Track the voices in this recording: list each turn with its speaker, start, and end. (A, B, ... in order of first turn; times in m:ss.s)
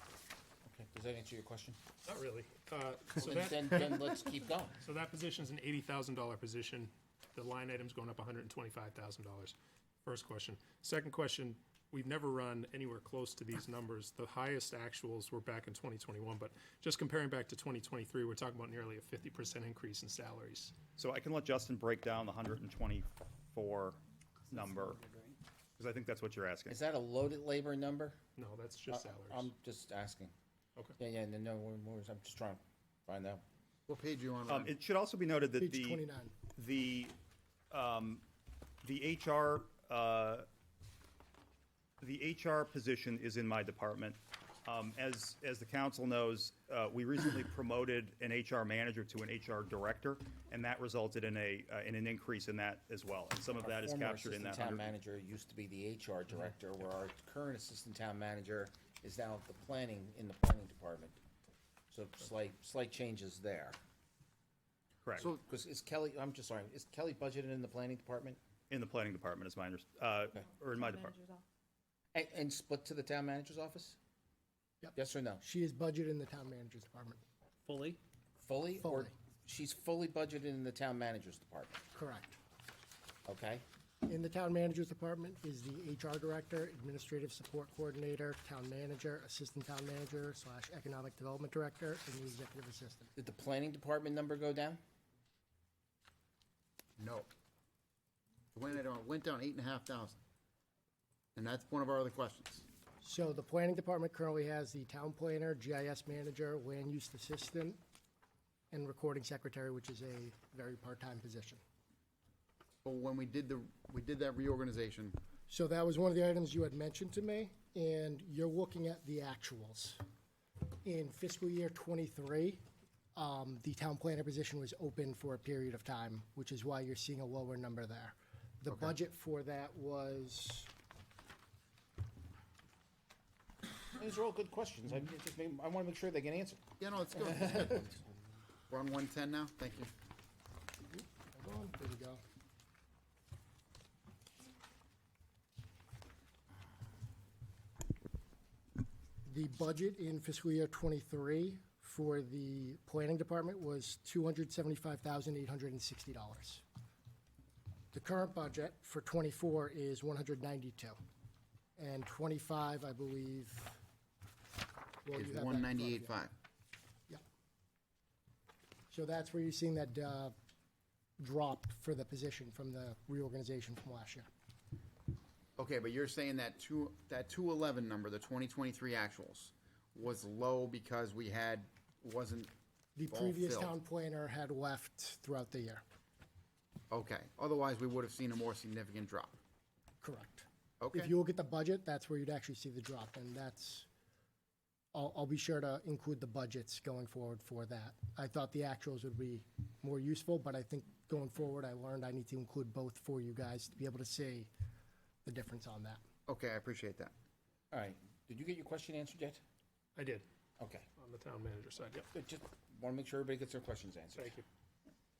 0:00.7-0:01.8 A
0:02.1-0:04.1 B
0:03.2-0:04.8 A
0:04.8-0:20.7 B
0:21.0-0:24.0 C
0:24.5-0:25.0 C
0:25.8-0:26.8 C
0:26.7-0:28.2 A
0:28.4-0:29.5 B
0:28.9-0:30.3 A
0:31.0-0:33.4 A
0:33.9-0:34.6 D
0:34.5-0:36.0 C
0:35.5-0:36.4 E
0:36.6-0:37.2 C
0:37.7-0:38.2 C
0:38.8-0:40.5 C
0:42.0-0:54.9 C
0:53.6-1:01.2 A
1:01.9-1:03.8 A
1:05.0-1:05.3 C
1:05.4-1:08.4 A
1:08.7-1:11.2 C
1:12.1-1:14.0 A
1:14.8-1:17.2 E
1:15.0-1:15.4 A
1:18.4-1:21.8 A
1:18.8-1:19.1 E
1:21.9-1:22.4 E
1:23.3-1:23.6 A
1:24.0-1:33.1 E
1:33.2-1:34.8 A
1:37.0-1:37.3 D
1:38.5-1:40.2 D
1:41.4-1:42.7 D
1:43.0-1:47.8 E
1:48.7-1:51.6 E
1:52.8-1:55.2 D
1:55.5-2:00.0 E
2:00.8-2:02.6 E
2:03.2-2:10.7 E
2:13.9-2:16.6 A
2:16.8-2:17.9 D
2:18.7-2:19.9 D
2:20.9-2:22.2 E
2:29.2-2:36.6 E
2:37.9-2:41.0 E
2:41.8-2:43.8 E
2:45.0-2:46.2 E
2:45.1-2:46.3 D
2:48.9-2:50.4 E
2:51.2-2:54.3 E
2:55.6-3:02.5 D
3:03.0-3:05.8 E
3:03.1-3:03.8 D
3:06.9-3:09.4 D
3:10.0-3:13.9 E
3:10.8-3:11.1 D
3:14.9-3:24.5 E
3:25.2-3:26.0 E
3:26.3-3:27.1 D
3:27.7-3:29.4 A
3:30.0-3:30.2 B
3:30.6-3:30.9 A
3:31.0-3:32.1 B
3:32.1-3:34.4 A
3:34.2-3:34.4 B